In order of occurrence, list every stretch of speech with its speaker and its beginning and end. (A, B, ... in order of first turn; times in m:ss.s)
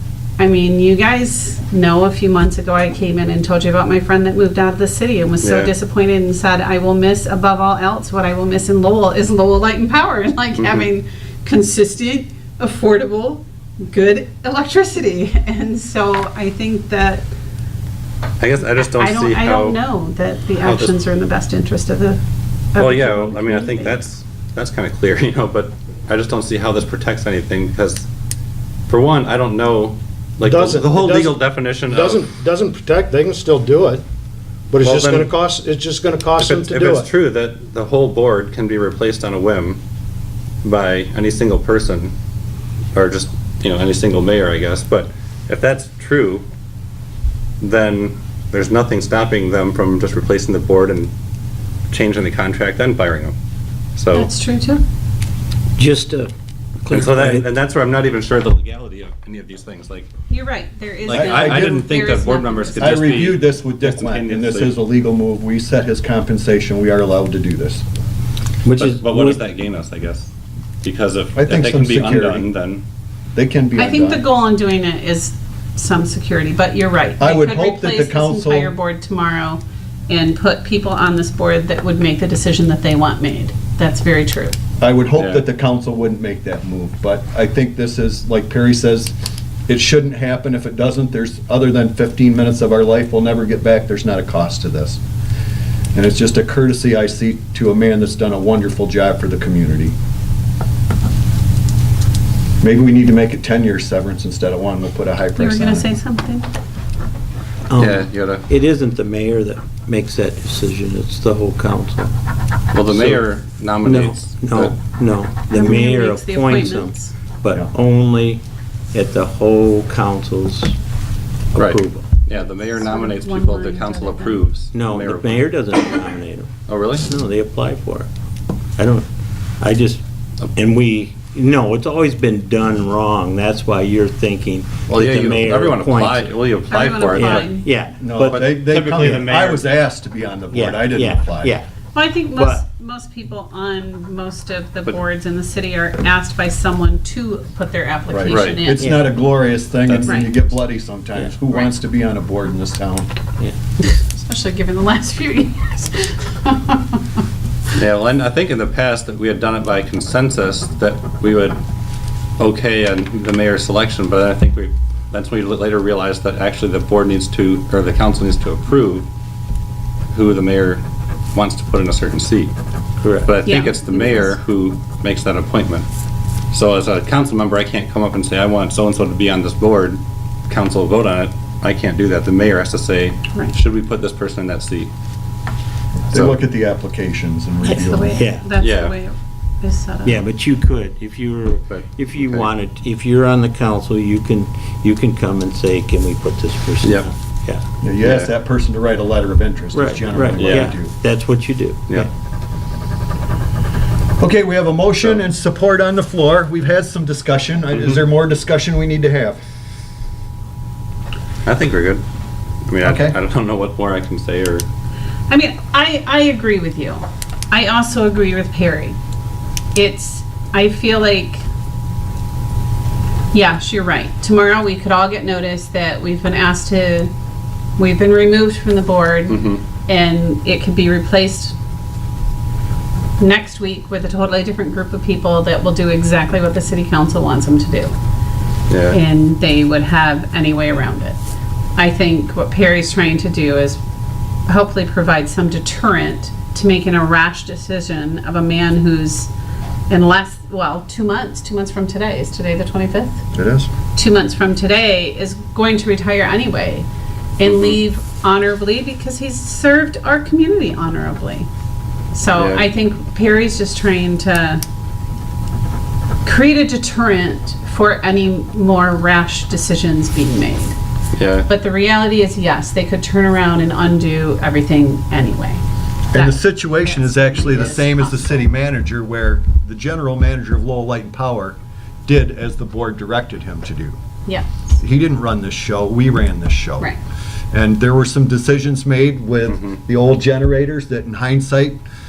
0:00.4-0:17.2 A
0:05.4-0:05.7 B
0:10.6-0:10.8 B
0:18.4-0:19.8 B
0:18.9-0:22.2 A
0:20.6-0:20.9 B
0:22.7-0:24.0 A
0:22.8-0:28.1 B
0:28.9-0:32.2 B
0:30.4-0:34.0 C
0:34.7-0:37.1 C
0:34.8-0:35.3 B
0:36.4-0:39.8 B
0:40.6-0:42.1 B
0:43.0-0:46.4 B
0:47.6-0:51.1 B
0:51.9-0:53.4 B
0:54.0-0:54.3 B
0:54.1-0:54.8 A
0:55.8-0:56.3 D
0:56.8-0:57.5 D
0:56.9-1:00.1 B
1:00.3-1:03.4 A
1:01.1-1:04.8 B
1:01.1-1:01.9 E
1:02.8-1:07.8 E
1:08.6-1:09.4 D
1:08.8-1:10.3 B
1:10.8-1:12.8 B
1:11.4-1:12.5 E
1:13.4-1:14.2 E
1:13.8-1:24.6 A
1:17.2-1:18.7 E
1:24.8-1:29.1 E
1:25.2-1:25.5 B
1:29.7-1:35.0 E
1:35.9-1:39.9 E
1:42.6-1:45.9 E
1:45.4-1:46.5 A
1:47.7-1:52.1 D
1:47.8-1:48.4 B
1:52.7-1:54.8 B
1:52.9-1:53.2 D
1:53.8-1:58.4 D
1:55.5-1:57.2 A
1:58.9-2:00.7 D
2:01.5-2:02.1 D
2:01.6-2:05.5 B
2:02.7-2:04.5 A
2:04.7-2:08.1 D
2:06.7-2:07.1 B
2:08.8-2:09.1 D
2:09.6-2:10.0 D
2:10.6-2:16.3 D
2:14.9-2:17.5 B
2:16.7-2:17.7 A
2:17.0-2:19.3 D
2:18.0-2:21.6 E
2:18.3-2:19.7 B
2:20.5-2:21.7 D
2:21.9-2:29.0 A
2:22.4-2:22.6 D
2:28.1-2:33.1 E
2:28.3-2:28.6 B
2:28.8-2:29.1 D
2:29.9-2:30.4 B
2:30.0-2:30.3 A
2:33.8-2:37.2 A
2:37.8-2:41.6 B
2:42.4-2:49.1 B
2:50.1-2:50.8 B
2:51.3-2:52.5 B
2:53.0-2:53.4 D
2:53.2-2:55.9 B
2:53.4-2:54.3 A
2:56.5-3:04.9 B
3:06.1-3:08.2 E
3:06.1-3:06.4 B
3:07.6-3:10.2 A
3:08.1-3:08.5 D
3:08.6-3:08.9 B
3:10.0-3:17.6 D
3:11.7-3:12.5 B
3:16.8-3:17.1 B
3:17.8-3:20.9 E
3:18.0-3:18.3 B
3:19.7-3:22.1 D
3:20.4-3:20.7 B
3:24.2-3:29.4 E
3:31.4-3:32.0 B
3:32.7-3:34.7 B
3:32.8-3:33.2 E
3:35.3-3:39.0 A
3:39.8-3:41.4 A
3:43.3-3:47.1 A
3:47.8-3:51.6 A
3:49.3-3:49.6 B
3:53.2-3:58.0 A
3:58.7-3:59.0 B
3:58.9-4:01.2 A
4:01.8-4:03.8 A
4:04.5-4:09.3 A
4:09.9-4:13.2 A
4:13.3-4:13.7 E
4:14.0-4:16.9 A
4:17.4-4:21.5 A
4:17.4-4:17.8 B
4:22.1-4:24.6 A
4:22.3-4:22.6 B
4:26.2-4:30.8 A
4:31.2-4:31.5 B
4:31.5-4:35.6 A
4:36.1-4:44.0 E
4:36.1-4:38.3 A
4:44.8-4:46.9 E
4:47.5-4:51.8 E